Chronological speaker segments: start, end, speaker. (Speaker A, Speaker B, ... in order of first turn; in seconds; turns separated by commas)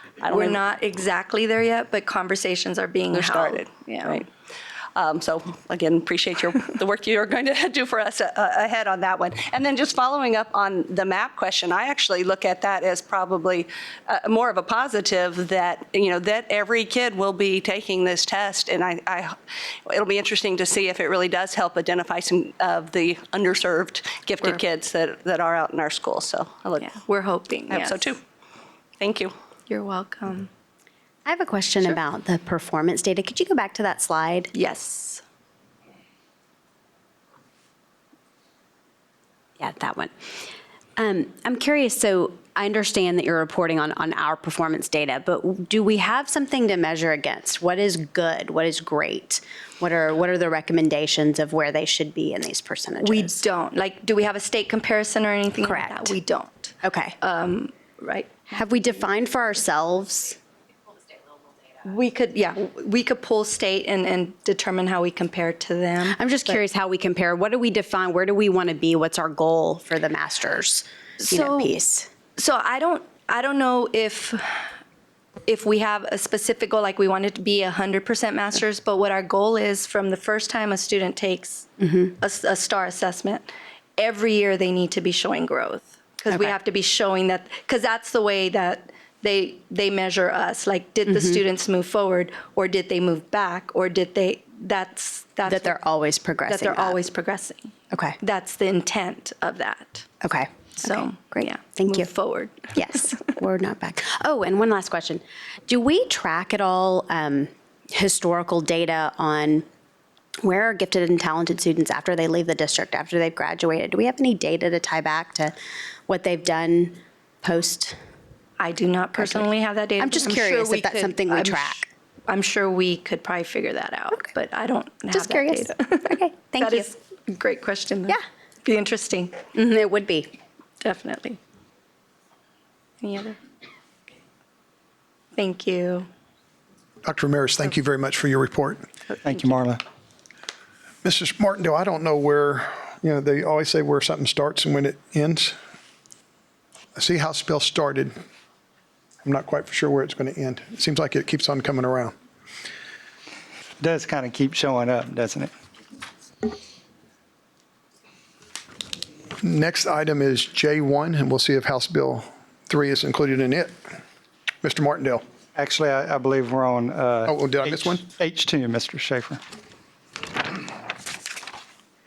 Speaker A: 0.2-0.6, Speaker B: 0.3-4.2, Speaker A: 3.1-4.3, Speaker A: 5.0-19.4, Speaker A: 19.9-27.0, Speaker B: 26.8-28.2, Speaker A: 27.7-28.2, Speaker A: 29.0-29.3, Speaker B: 29.7-30.5, Speaker C: 31.3-34.5, Speaker B: 34.5-35.2, Speaker C: 39.6-40.1, Speaker C: 41.0-53.3, Speaker B: 53.0-58.4, Speaker C: 55.6-56.1, Speaker C: 56.8-57.2, Speaker C: 58.5-60.4, Speaker B: 61.8-66.6, Speaker C: 66.1-72.1, Speaker B: 71.2-71.7, Speaker B: 72.4-74.7, Speaker B: 75.5-95.7, Speaker C: 81.8-82.1, Speaker C: 91.1-91.4, Speaker C: 95.5-97.0, Speaker B: 96.5-100.1, Speaker C: 97.9-98.2, Speaker C: 100.2-102.1, Speaker B: 100.8-102.7, Speaker C: 102.7-109.7, Speaker C: 110.4-115.5, Speaker C: 116.1-118.0, Speaker B: 118.6-129.4, Speaker C: 119.2-119.5, Speaker C: 120.0-121.8, Speaker C: 125.1-126.9, Speaker C: 129.6-130.3, Speaker B: 130.8-131.4, Speaker B: 133.0-133.4, Speaker B: 135.3-136.1, Speaker D: 137.0-138.8, Speaker E: 139.2-139.8, Speaker D: 141.0-145.6, Speaker D: 146.9-148.2, Speaker D: 149.2-152.1, Speaker E: 153.8-155.5, Speaker D: 159.4-163.7, Speaker D: 164.6-165.2, Speaker E: 165.6-169.4, Speaker D: 167.3-168.0